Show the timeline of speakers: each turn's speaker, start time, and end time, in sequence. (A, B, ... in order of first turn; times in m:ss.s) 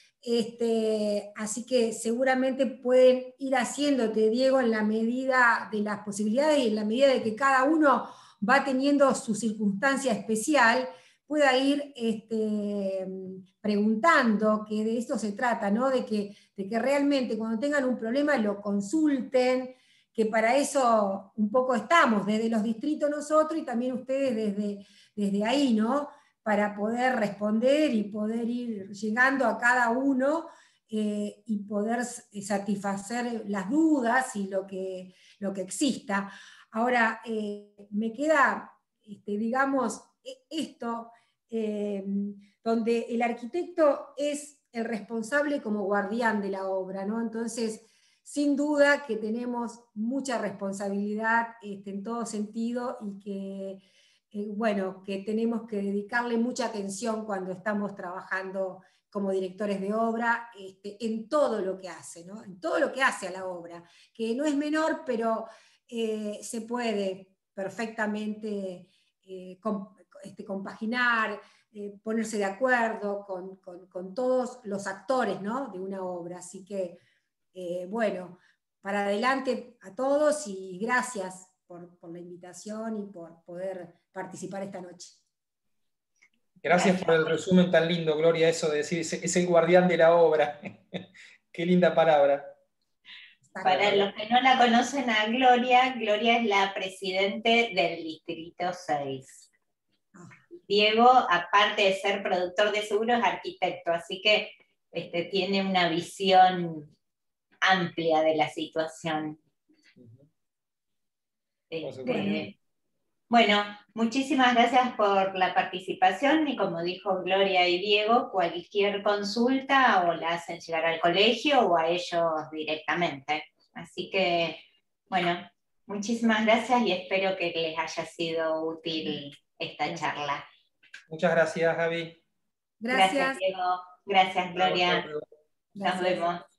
0:00.2-1:17.0 A
1:17.5-1:25.2 A
1:26.6-1:32.5 B
1:26.7-1:27.4 C
1:33.5-1:34.0 A
1:33.6-1:39.5 C
1:33.7-1:34.0 B
1:40.6-1:46.9 C
1:47.6-1:49.4 C
1:50.0-1:50.2 B
1:51.7-1:52.5 C
1:51.8-1:52.5 B
1:52.0-1:52.4 A
1:53.3-2:10.4 C
2:09.9-2:10.1 A
2:11.1-2:12.2 B
2:12.8-2:13.4 A
2:12.9-2:15.0 C
2:14.6-2:15.2 B
2:15.8-2:16.3 A
2:15.8-2:16.4 C